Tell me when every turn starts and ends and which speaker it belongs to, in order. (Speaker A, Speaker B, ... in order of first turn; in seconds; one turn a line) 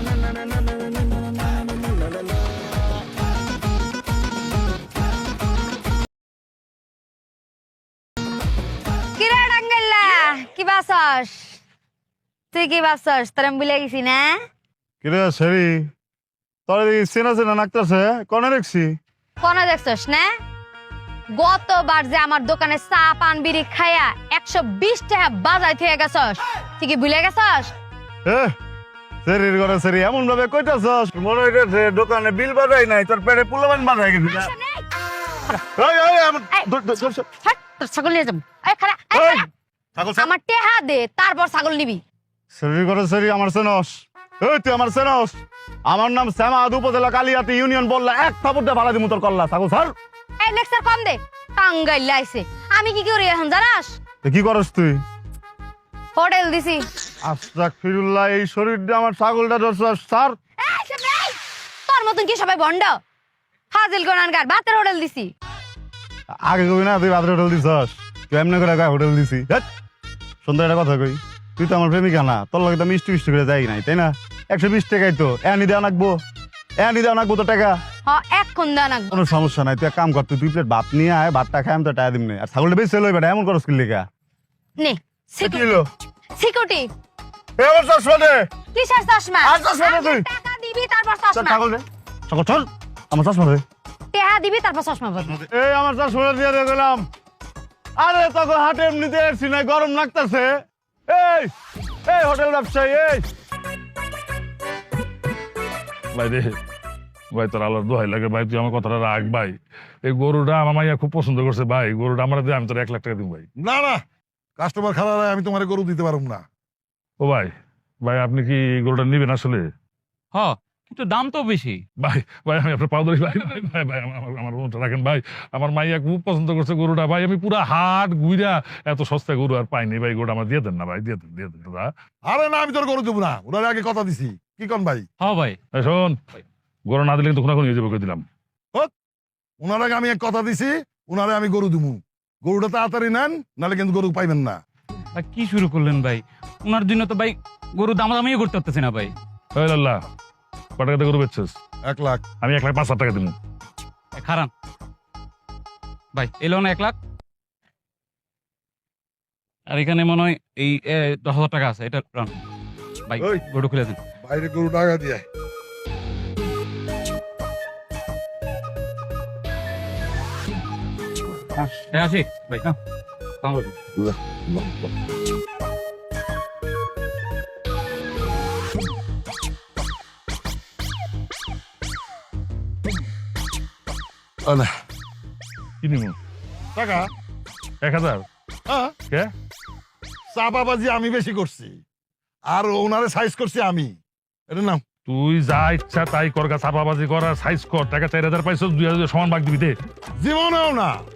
Speaker A: 9.2-11.6
Speaker A: 12.5-14.4
Speaker B: 15.0-15.8
Speaker B: 16.7-18.9
Speaker A: 19.4-20.3
Speaker A: 21.4-27.7
Speaker B: 28.2-28.5
Speaker B: 29.2-34.5
Speaker A: 34.3-34.8
Speaker B: 35.6-37.2
Speaker A: 37.3-39.5
Speaker B: 39.1-39.5
Speaker B: 40.0-40.3
Speaker A: 40.1-42.0
Speaker B: 42.5-49.9
Speaker A: 50.4-53.9
Speaker B: 54.2-55.0
Speaker A: 56.1-56.9
Speaker B: 57.2-60.4
Speaker A: 60.6-63.0
Speaker A: 63.7-65.3
Speaker B: 66.4-69.6
Speaker B: 70.4-76.1
Speaker B: 76.8-77.7
Speaker A: 78.0-79.1
Speaker B: 79.1-84.0
Speaker A: 84.8-85.7
Speaker B: 85.4-85.8
Speaker A: 86.4-86.9
Speaker B: 87.6-88.4
Speaker A: 88.7-91.6
Speaker B: 89.4-90.2
Speaker B: 91.3-93.6
Speaker A: 94.1-95.3
Speaker B: 95.2-97.0
Speaker B: 98.0-100.5
Speaker B: 101.1-101.5
Speaker B: 102.0-103.2
Speaker C: 106.1-106.6
Speaker C: 107.3-113.4
Speaker D: 113.6-114.0
Speaker D: 114.6-116.4
Speaker C: 117.2-117.5
Speaker C: 118.0-119.7
Speaker E: 120.3-121.8
Speaker C: 122.0-131.9
Speaker D: 132.2-135.1
Speaker E: 135.2-135.6
Speaker C: 135.7-136.2
Speaker C: 136.9-138.2
Speaker D: 139.6-144.6
Speaker E: 145.1-149.1
Speaker C: 149.5-150.0
Speaker C: 150.8-151.6
Speaker D: 151.8-152.2
Speaker C: 152.4-153.3
Speaker E: 154.1-154.5
Speaker E: 156.1-156.9
Speaker E: 159.7-162.4
Speaker E: 163.1-164.0
Speaker D: 164.2-165.2
Speaker E: 171.6-172.8
Speaker E: 173.4-173.7
Speaker D: 174.0-174.8
Speaker D: 184.4-184.7
Speaker C: 185.8-186.1
Speaker D: 186.7-187.1
Speaker C: 187.8-188.2
Speaker D: 188.7-188.9
Speaker D: 190.3-191.8
Speaker D: 192.5-193.9
Speaker D: 194.5-194.8
Speaker C: 195.1-199.7
Speaker D: 200.2-200.9